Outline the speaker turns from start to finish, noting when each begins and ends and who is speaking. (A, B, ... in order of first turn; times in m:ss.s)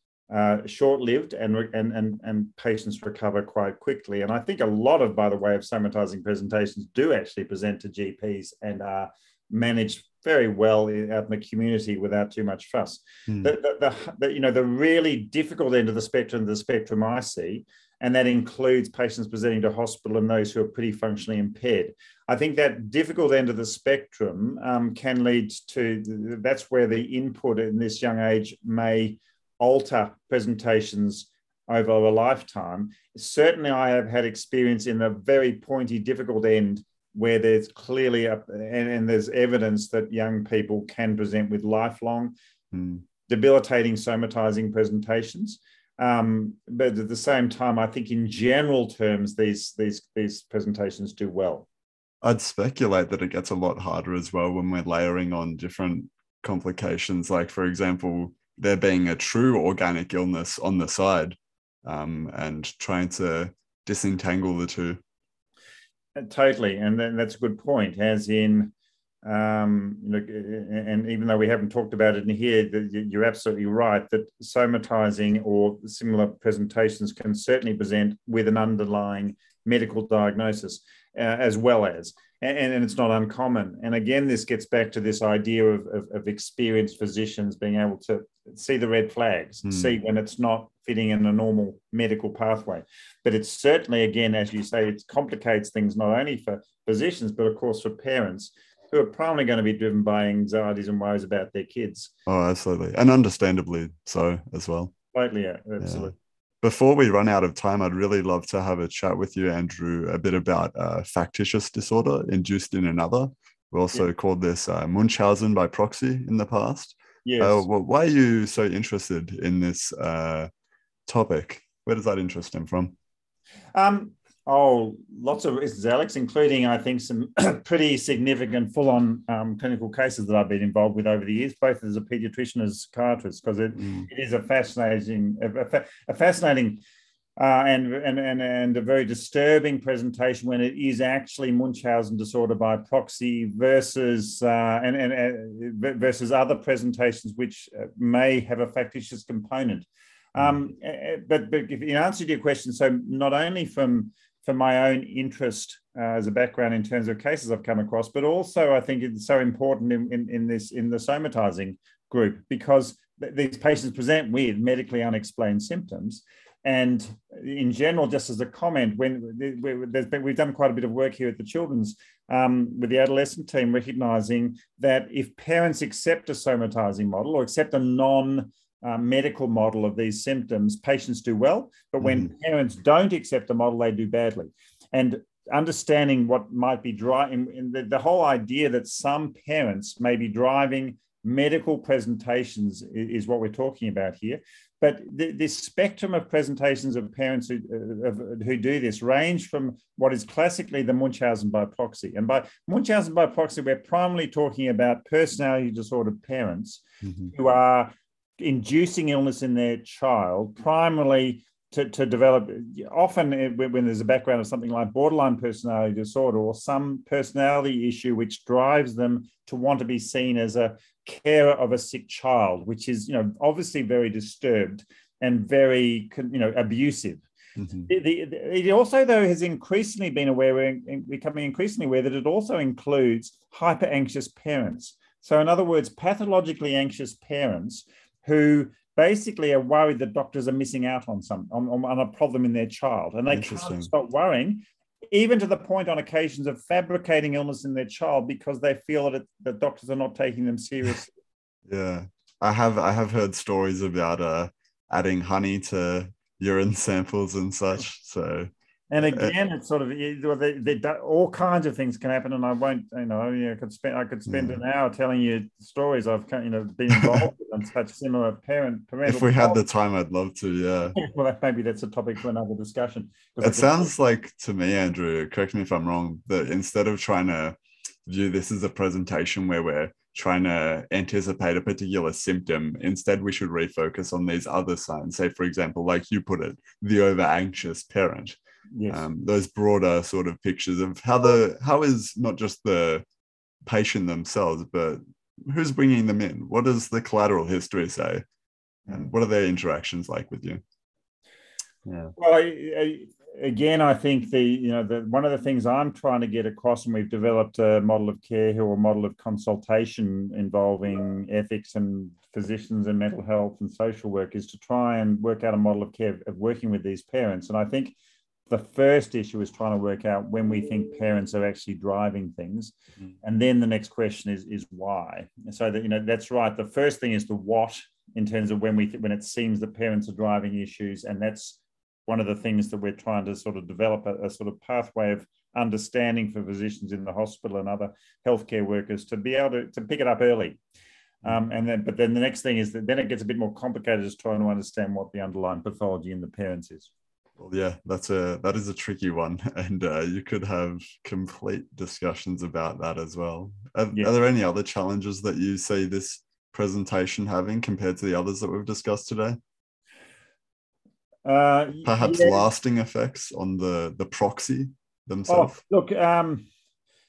0:00.3-0:42.3 A
0:42.7-0:43.0 B
0:43.3-0:51.7 A
0:52.2-1:05.0 B
1:06.2-1:08.7 A
1:09.2-1:42.1 A
1:29.6-1:29.9 B
1:42.3-1:44.9 B
1:45.1-1:46.2 A
1:45.8-2:00.5 B
1:57.2-1:57.7 A
2:01.1-2:03.0 B
2:03.8-2:16.8 A
2:13.8-2:14.1 B
2:17.4-3:47.3 A
3:02.0-3:02.3 B
3:27.0-3:27.3 B
3:47.6-3:47.9 B
3:47.9-4:11.1 A
4:03.3-4:03.9 B
4:11.7-4:19.3 B
4:18.9-4:29.6 A
4:24.3-4:24.6 B
4:29.1-4:31.0 B
4:31.0-4:33.9 A
4:33.4-4:48.4 B
4:48.7-4:49.0 A
4:48.9-4:53.0 B
4:53.6-4:58.2 B
4:58.9-5:00.6 B
5:01.9-5:02.1 B
5:02.2-5:18.0 A
5:18.5-5:40.6 A
5:41.2-5:46.9 A
5:47.4-5:59.4 B
6:01.2-6:02.4 A
6:01.8-6:05.6 B
6:05.3-6:06.4 A